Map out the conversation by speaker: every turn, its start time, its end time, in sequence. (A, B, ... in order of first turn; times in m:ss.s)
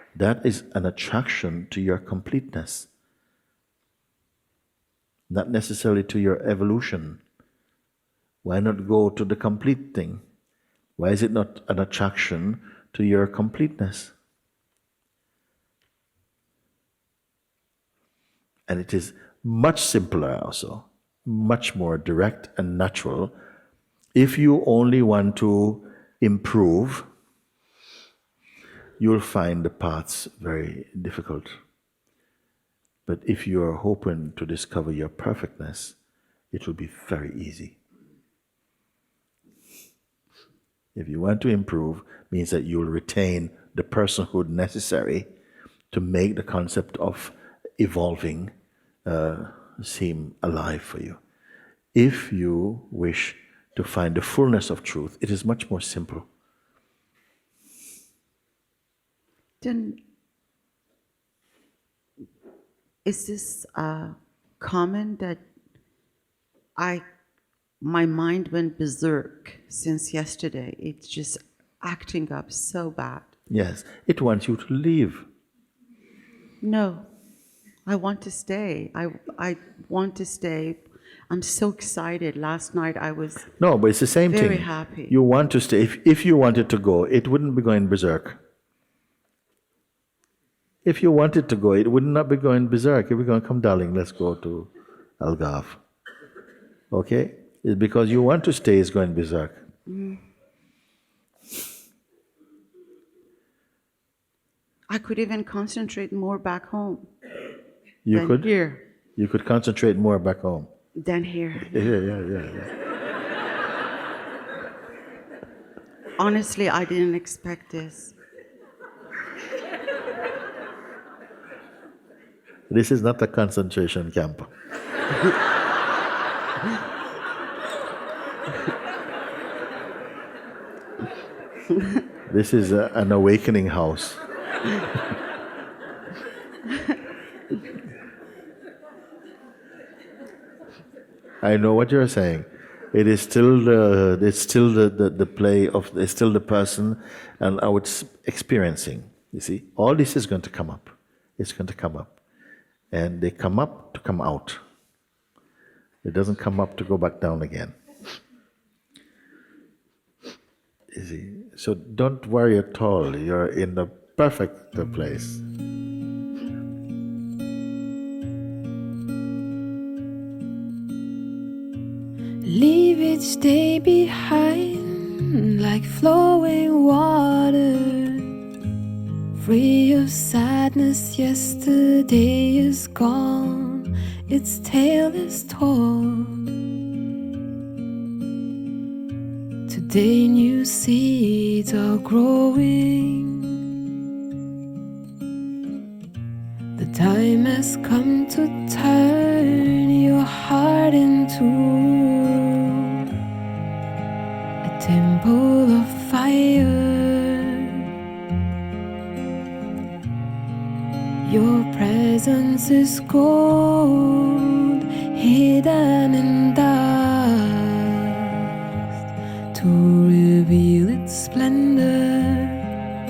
0:00.2-0:02.9 A
0:05.3-0:07.2 A
0:08.4-0:10.2 A
0:11.0-0:14.1 A
0:18.7-0:23.4 A
0:24.2-0:27.1 A
0:29.0-0:31.6 A
0:33.1-0:36.0 A
0:36.5-0:37.8 A
0:41.0-0:45.3 A
0:45.9-0:48.5 A
0:49.0-0:51.2 A
0:51.9-0:56.3 A
0:59.6-1:00.0 B
1:03.0-1:05.4 B
1:06.8-1:07.0 B
1:07.8-1:13.3 B
1:13.5-1:15.3 A
1:16.6-1:17.1 B
1:17.9-1:23.5 B
1:23.6-1:28.4 A
1:24.3-1:25.2 B
1:30.8-1:35.8 A
1:36.9-1:39.7 A
1:39.9-1:40.2 B
1:44.9-1:47.1 B
1:48.0-1:48.5 A
1:48.1-1:48.8 B
1:49.2-1:50.7 A
1:51.0-1:51.9 B
1:51.6-1:52.7 A
1:56.2-1:58.2 B
2:02.7-2:04.5 A
2:12.3-2:14.2 A
2:21.4-2:32.2 A
2:32.9-2:34.6 A
2:36.0-2:37.7 A
2:40.9-2:45.4 A
2:52.4-2:58.3 C
2:59.4-3:06.5 C
3:09.7-3:13.6 C
3:16.8-3:23.1 C
3:24.6-3:27.9 C
3:31.2-3:38.6 C
3:39.5-3:42.7 C